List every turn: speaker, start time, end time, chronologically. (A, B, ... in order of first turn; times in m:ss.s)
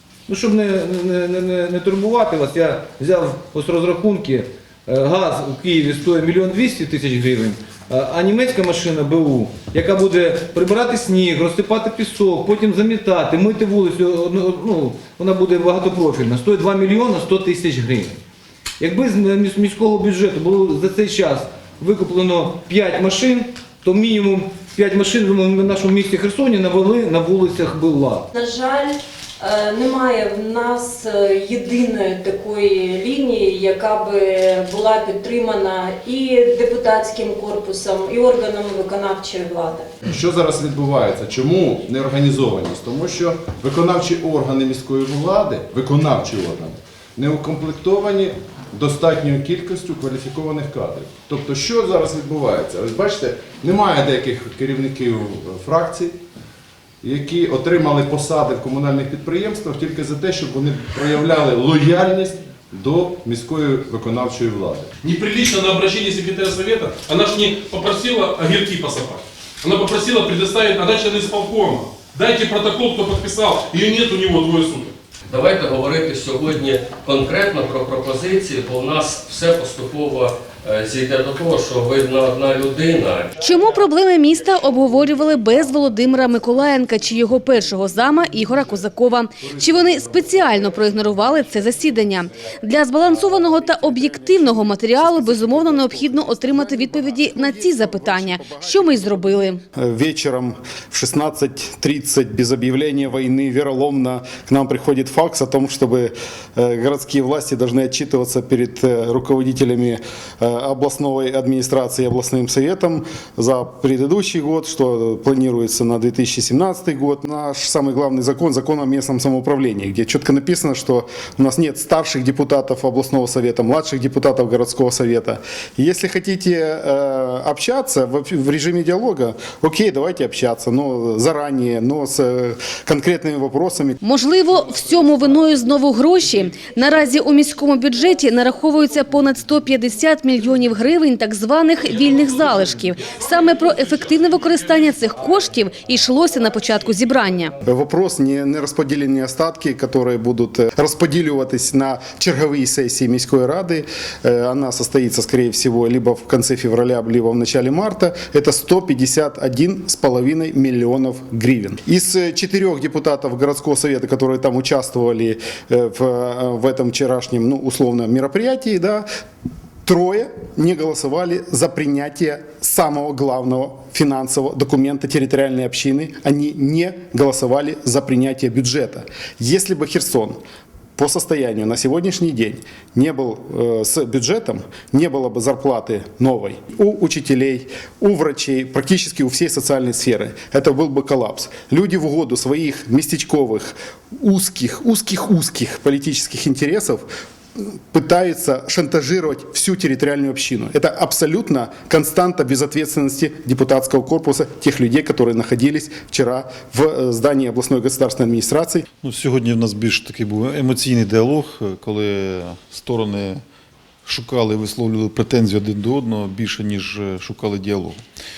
0:00.3-0:18.2 A
0:18.8-0:28.3 A
0:28.4-0:40.0 B
0:40.0-0:56.2 C
0:57.0-1:04.9 C
1:05.0-1:14.9 D
1:15.3-1:23.3 E
1:23.4-1:39.6 F
1:33.2-1:33.5 G
1:34.2-2:14.0 G
2:14.0-2:27.5 F
2:27.6-2:49.0 G
2:49.9-3:00.4 G
3:01.0-3:17.1 G
3:17.9-3:28.8 G
3:29.0-3:33.4 H
3:34.1-3:38.0 H